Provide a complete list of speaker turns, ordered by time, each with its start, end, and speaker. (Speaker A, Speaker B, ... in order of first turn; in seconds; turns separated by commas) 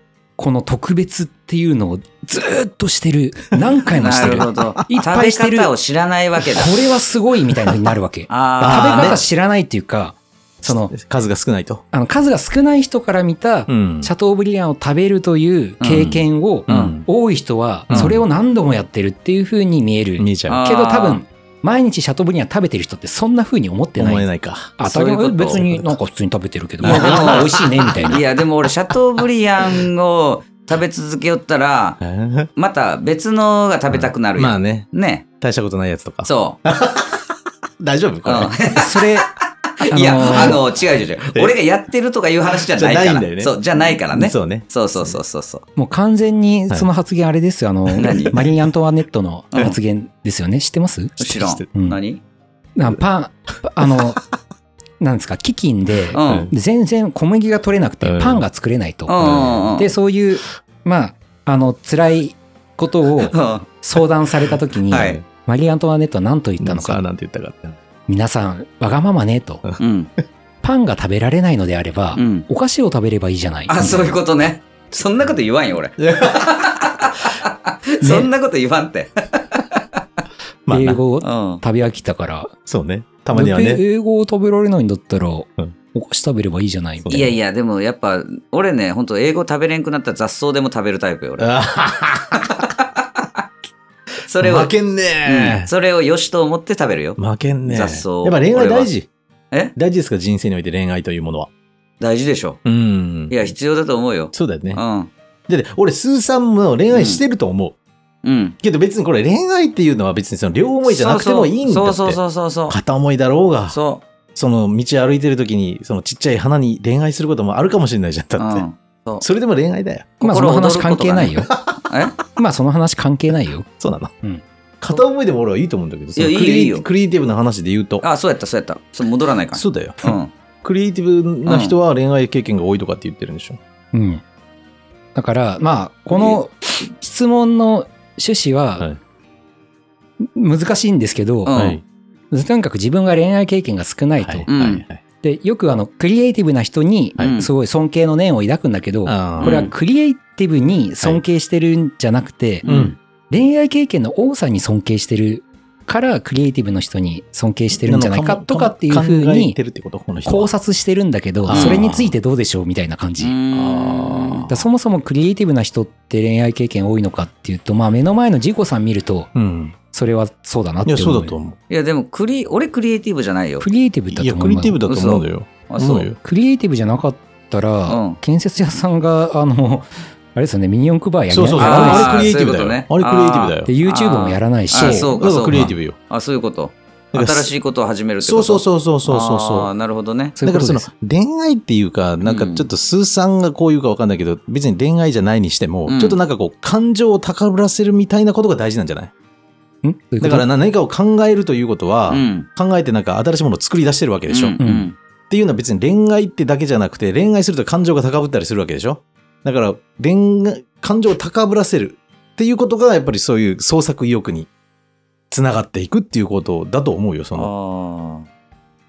Speaker A: 0.4-5.7, Speaker B: 3.9-6.7, Speaker C: 4.2-4.6, Speaker A: 6.5-10.9, Speaker B: 8.3-9.2, Speaker C: 8.6-9.2, Speaker C: 10.6-11.8, Speaker A: 11.9-24.3, Speaker C: 13.7-14.1, Speaker B: 15.8-16.9, Speaker C: 16.0-17.1, Speaker C: 17.9-18.2, Speaker C: 20.2-20.6, Speaker B: 20.5-21.2, Speaker C: 24.0-24.8, Speaker A: 24.8-28.2, Speaker B: 24.8-25.6, Speaker C: 25.5-25.9, Speaker C: 26.8-28.2, Speaker B: 26.8-32.0, Speaker C: 32.0-32.5, Speaker B: 32.5-35.2, Speaker C: 33.9-34.9, Speaker C: 35.4-37.2, Speaker B: 36.2-36.6, Speaker C: 37.8-38.6, Speaker B: 38.2-45.6, Speaker A: 38.7-39.3, Speaker A: 39.9-40.6, Speaker C: 40.2-41.5, Speaker C: 42.5-45.2, Speaker A: 45.8-51.2, Speaker C: 47.9-48.4, Speaker B: 48.0-48.3, Speaker C: 51.2-51.7, Speaker B: 51.2-52.2, Speaker A: 51.7-52.0, Speaker A: 52.8-54.2, Speaker C: 53.8-54.2, Speaker A: 55.0-67.0, Speaker B: 56.1-56.5, Speaker C: 56.2-56.5, Speaker C: 58.0-58.4, Speaker B: 59.1-59.9, Speaker C: 59.2-59.7, Speaker B: 63.3-63.8, Speaker B: 64.9-65.2, Speaker C: 65.0-65.2, Speaker C: 66.6-67.8, Speaker A: 68.1-69.6, Speaker B: 69.8-70.1, Speaker A: 70.6-74.2, Speaker B: 72.2-72.5, Speaker B: 73.7-79.8, Speaker C: 76.0-76.7, Speaker A: 78.0-78.3, Speaker C: 80.7-81.0, Speaker A: 80.7-82.5, Speaker B: 81.2-81.6, Speaker C: 82.7-83.8, Speaker A: 83.3-87.2, Speaker C: 87.0-87.3, Speaker B: 87.1-91.5, Speaker C: 91.4-92.7, Speaker B: 94.2-94.7, Speaker C: 94.4-95.7, Speaker B: 95.2-98.9, Speaker C: 97.2-99.1, Speaker C: 99.8-101.5, Speaker B: 102.0-102.6, Speaker C: 102.6-103.5, Speaker B: 103.3-105.1, Speaker C: 104.3-104.8, Speaker C: 105.5-107.8, Speaker B: 106.9-107.2, Speaker B: 108.2-108.6, Speaker C: 108.6-113.8, Speaker B: 110.8-112.8, Speaker B: 113.7-114.0, Speaker C: 114.3-118.7, Speaker B: 118.4-119.2, Speaker C: 119.2-120.1, Speaker A: 120.2-121.5, Speaker B: 120.2-122.2, Speaker C: 121.5-121.8, Speaker A: 122.3-123.7, Speaker C: 123.8-124.1, Speaker C: 124.8-128.0, Speaker B: 126.2-126.8, Speaker B: 128.0-130.3, Speaker C: 129.5-133.6, Speaker B: 131.4-131.8, Speaker A: 133.9-134.2, Speaker A: 135.1-138.9, Speaker A: 140.2-141.7, Speaker B: 141.4-141.8, Speaker C: 141.5-141.8, Speaker A: 142.3-144.5, Speaker C: 144.2-145.0, Speaker B: 144.5-144.8, Speaker A: 145.2-152.7, Speaker B: 147.2-147.5, Speaker C: 149.1-149.7, Speaker B: 149.4-149.7, Speaker B: 152.6-152.9, Speaker C: 152.7-152.9, Speaker A: 153.3-159.6, Speaker C: 157.7-160.5, Speaker A: 160.2-163.3, Speaker C: 161.4-162.1, Speaker B: 161.5-161.8, Speaker B: 163.2-164.5, Speaker C: 163.5-164.7, Speaker A: 164.5-169.3, Speaker C: 169.3-169.8, Speaker A: 169.9-171.3, Speaker C: 170.8-171.6, Speaker B: 171.7-173.7, Speaker A: 173.6-174.8, Speaker C: 174.1-176.2, Speaker B: 174.9-176.1, Speaker A: 176.2-182.2, Speaker B: 177.9-178.2, Speaker C: 181.3-183.7, Speaker B: 181.6-190.3, Speaker A: 183.7-185.7, Speaker C: 184.8-186.0, Speaker C: 187.1-187.5, Speaker C: 188.2-189.7, Speaker A: 190.4-190.9, Speaker C: 190.4-199.1, Speaker B: 192.2-192.7, Speaker B: 195.9-196.2, Speaker A: 199.8-200.5, Speaker C: 200.2-204.6, Speaker B: 202.1-202.5, Speaker B: 204.3-204.9, Speaker A: 204.6-204.9, Speaker C: 205.3-214.5, Speaker C: 215.3-217.5, Speaker B: 217.3-218.3